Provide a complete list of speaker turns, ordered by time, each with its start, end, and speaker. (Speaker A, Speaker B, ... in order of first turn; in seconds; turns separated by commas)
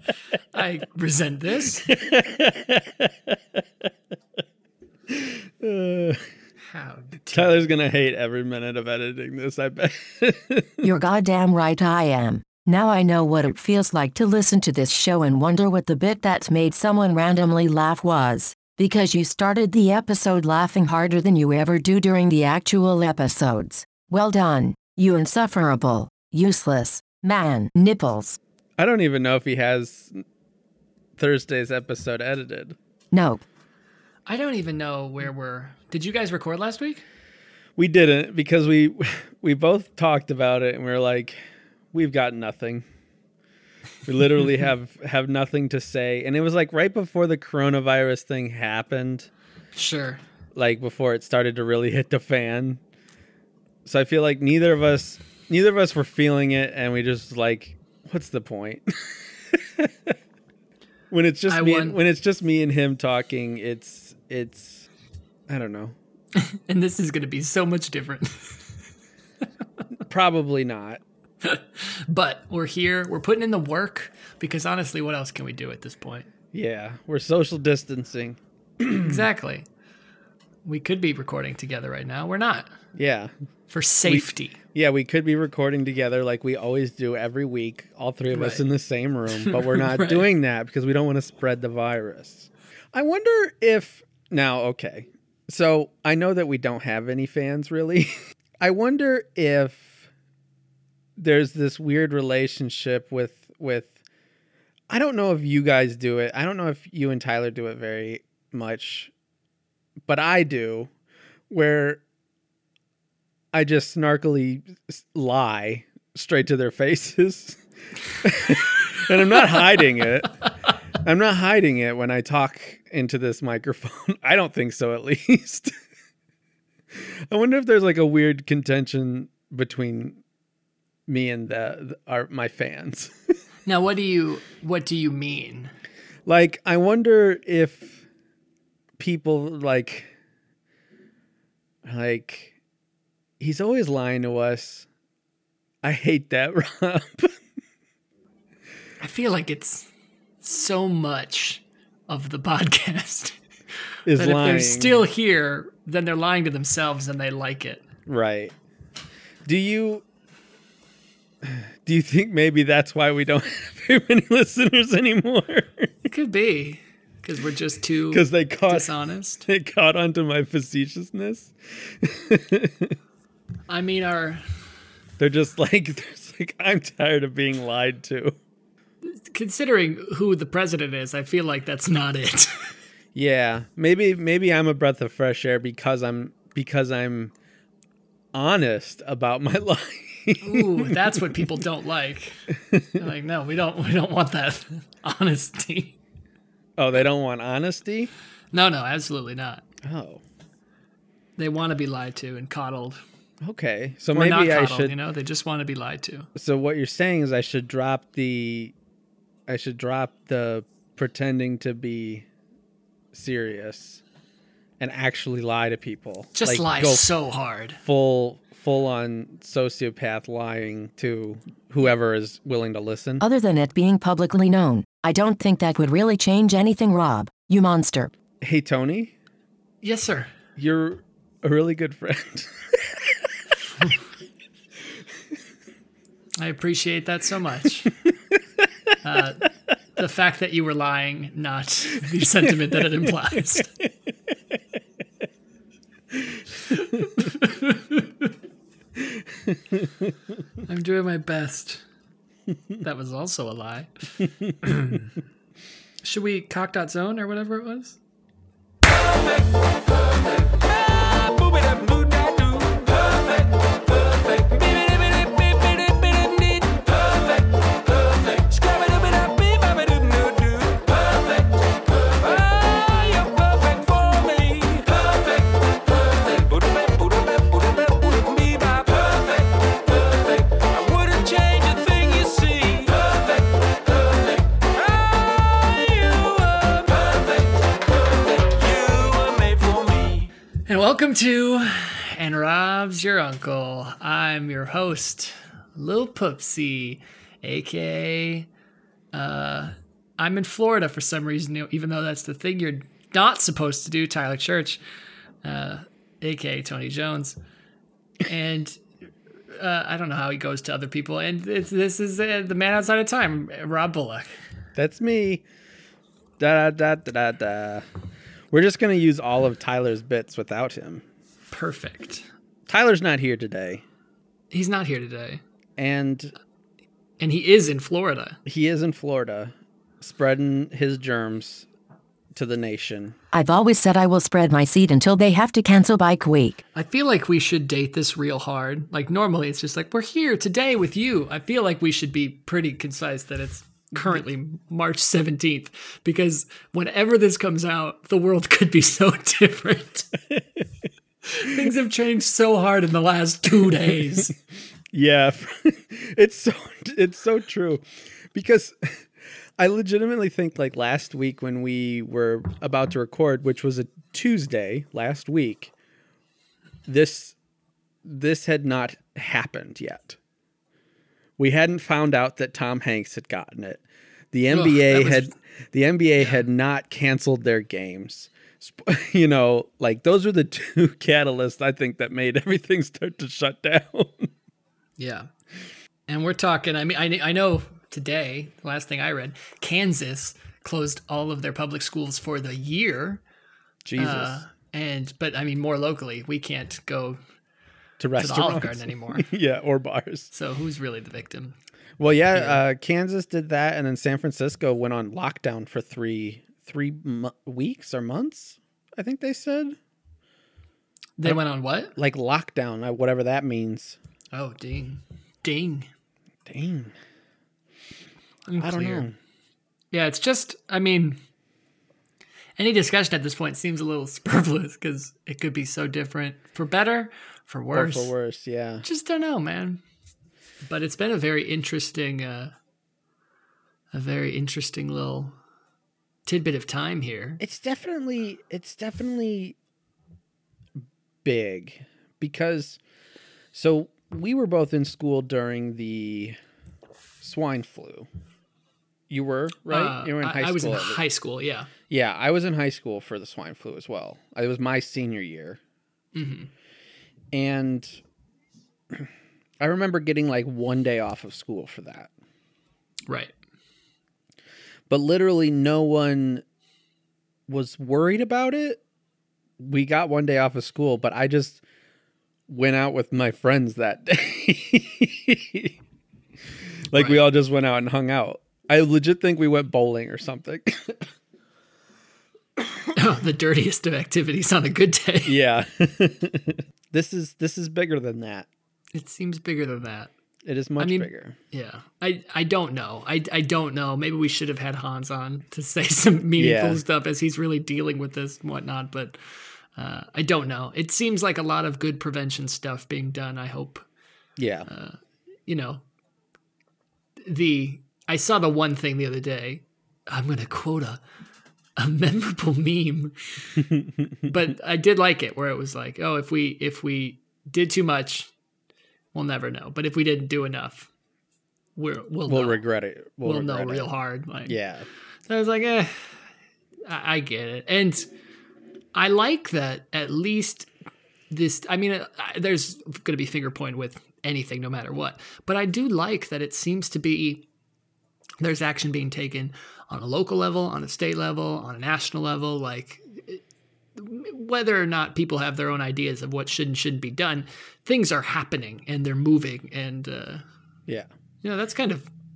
Speaker A: 0.5-1.9, Speaker B: 1.9-3.6, Speaker B: 5.1-6.2, Speaker A: 6.7-7.6, Speaker B: 7.3-10.7, Speaker C: 10.8-28.4, Speaker B: 28.8-30.2, Speaker B: 31.2-32.8, Speaker C: 33.1-33.4, Speaker A: 34.3-37.0, Speaker B: 37.8-41.4, Speaker B: 41.9-42.9, Speaker B: 44.0-49.3, Speaker A: 49.8-50.2, Speaker B: 50.5-52.8, Speaker B: 53.8-60.1, Speaker B: 61.1-64.9, Speaker A: 61.5-62.0, Speaker B: 65.5-66.0, Speaker A: 66.4-68.7, Speaker B: 70.1-71.0, Speaker A: 71.4-76.3, Speaker B: 76.5-79.2, Speaker A: 79.0-79.7, Speaker A: 80.6-82.7, Speaker B: 83.0-83.3, Speaker A: 83.7-84.6, Speaker B: 84.0-100.0, Speaker A: 88.3-88.6, Speaker A: 89.3-90.3, Speaker B: 101.2-104.0, Speaker B: 104.9-109.1, Speaker B: 110.1-110.9, Speaker B: 111.5-112.0, Speaker B: 113.5-117.6, Speaker B: 118.2-120.5, Speaker B: 121.0-125.8, Speaker B: 126.9-130.2, Speaker B: 131.1-133.1, Speaker A: 133.7-135.7, Speaker B: 136.2-138.0, Speaker B: 139.0-140.1, Speaker B: 141.8-142.5, Speaker B: 143.4-144.9, Speaker B: 145.8-147.4, Speaker A: 149.0-149.9, Speaker A: 150.4-153.4, Speaker B: 154.1-155.1, Speaker A: 154.2-157.8, Speaker B: 158.1-158.6, Speaker B: 159.4-160.0, Speaker B: 161.4-165.9, Speaker A: 166.1-169.5, Speaker B: 168.1-173.0, Speaker A: 173.7-174.4, Speaker B: 175.2-178.3, Speaker A: 179.0-182.7, Speaker B: 183.2-187.3, Speaker B: 188.3-191.5, Speaker A: 190.4-192.5, Speaker B: 192.7-193.0, Speaker A: 193.0-196.0, Speaker B: 196.8-198.1, Speaker A: 198.5-199.7, Speaker B: 199.8-200.2, Speaker A: 201.4-203.0, Speaker B: 203.4-204.9, Speaker A: 204.1-206.3, Speaker B: 206.3-208.7, Speaker B: 209.5-212.2, Speaker B: 213.1-214.0, Speaker B: 214.8-217.1, Speaker A: 216.3-217.8, Speaker B: 217.8-223.2, Speaker C: 223.2-228.1, Speaker B: 228.4-229.1, Speaker A: 229.8-230.3, Speaker B: 230.6-233.2, Speaker A: 236.4-238.0, Speaker A: 239.0-243.7, Speaker B: 243.6-243.8, Speaker B: 246.1-246.4, Speaker A: 246.8-248.2, Speaker B: 249.1-250.1, Speaker A: 250.7-251.8, Speaker A: 252.8-254.0, Speaker A: 254.6-255.1, Speaker A: 256.0-258.0, Speaker D: 260.5-271.5, Speaker D: 272.0-283.5, Speaker D: 284.2-287.4, Speaker D: 288.3-290.3, Speaker A: 290.7-298.5, Speaker A: 299.1-304.8, Speaker A: 305.4-307.4, Speaker A: 308.2-308.8, Speaker A: 309.5-314.3, Speaker B: 314.8-315.4, Speaker B: 316.4-317.9, Speaker B: 318.5-321.1, Speaker A: 321.5-322.3, Speaker B: 322.7-323.8, Speaker A: 324.5-325.4, Speaker B: 325.8-326.3, Speaker A: 327.2-328.4, Speaker B: 328.4-331.7, Speaker B: 332.3-333.2, Speaker C: 333.3-336.6, Speaker A: 336.7-350.1, Speaker B: 350.3-350.7, Speaker A: 351.3-354.3, Speaker B: 354.9-359.0, Speaker B: 359.6-365.7, Speaker B: 366.9-367.4, Speaker B: 368.1-370.2, Speaker B: 371.4-384.3, Speaker A: 374.5-375.3, Speaker A: 385.0-385.3, Speaker A: 386.1-393.2, Speaker B: 393.9-394.4, Speaker A: 394.0-397.2, Speaker B: 398.0-400.3, Speaker A: 398.2-399.3, Speaker A: 400.3-401.6, Speaker B: 402.0-409.8, Speaker A: 402.3-402.6, Speaker A: 411.2-411.9, Speaker B: 411.9-414.0, Speaker A: 414.3-415.9, Speaker B: 416.4-416.9, Speaker A: 418.5-419.1, Speaker B: 418.6-419.1, Speaker A: 419.9-421.2, Speaker A: 422.6-428.1, Speaker B: 427.7-428.8, Speaker A: 428.8-429.8, Speaker A: 430.6-432.5, Speaker A: 433.9-435.4, Speaker A: 436.2-437.4, Speaker B: 437.4-439.6, Speaker B: 441.2-442.8, Speaker B: 443.5-446.4, Speaker B: 447.2-448.1, Speaker B: 449.1-451.0, Speaker A: 449.7-451.7, Speaker B: 451.9-455.6, Speaker A: 456.1-456.5, Speaker B: 457.3-458.0, Speaker B: 459.6-462.1, Speaker A: 463.1-463.4, Speaker B: 464.9-466.4, Speaker B: 467.5-468.8, Speaker B: 469.6-471.6, Speaker B: 472.5-475.8, Speaker B: 476.9-481.1, Speaker A: 476.9-477.2, Speaker A: 482.9-485.4, Speaker B: 485.2-488.5, Speaker A: 488.9-490.1, Speaker B: 490.4-491.4, Speaker A: 490.8-499.2, Speaker B: 496.4-496.8, Speaker A: 499.8-503.9, Speaker B: 504.4-504.7, Speaker A: 504.7-505.8, Speaker A: 507.2-511.0, Speaker A: 511.8-513.5, Speaker A: 514.2-518.3, Speaker A: 519.1-520.9, Speaker A: 521.8-522.6, Speaker B: 522.3-523.9, Speaker A: 523.2-524.6, Speaker B: 524.4-524.9, Speaker A: 525.3-526.2, Speaker A: 526.8-528.1, Speaker A: 528.9-530.7, Speaker A: 531.3-537.5, Speaker A: 538.4-543.4, Speaker A: 544.0-550.4, Speaker A: 551.4-552.1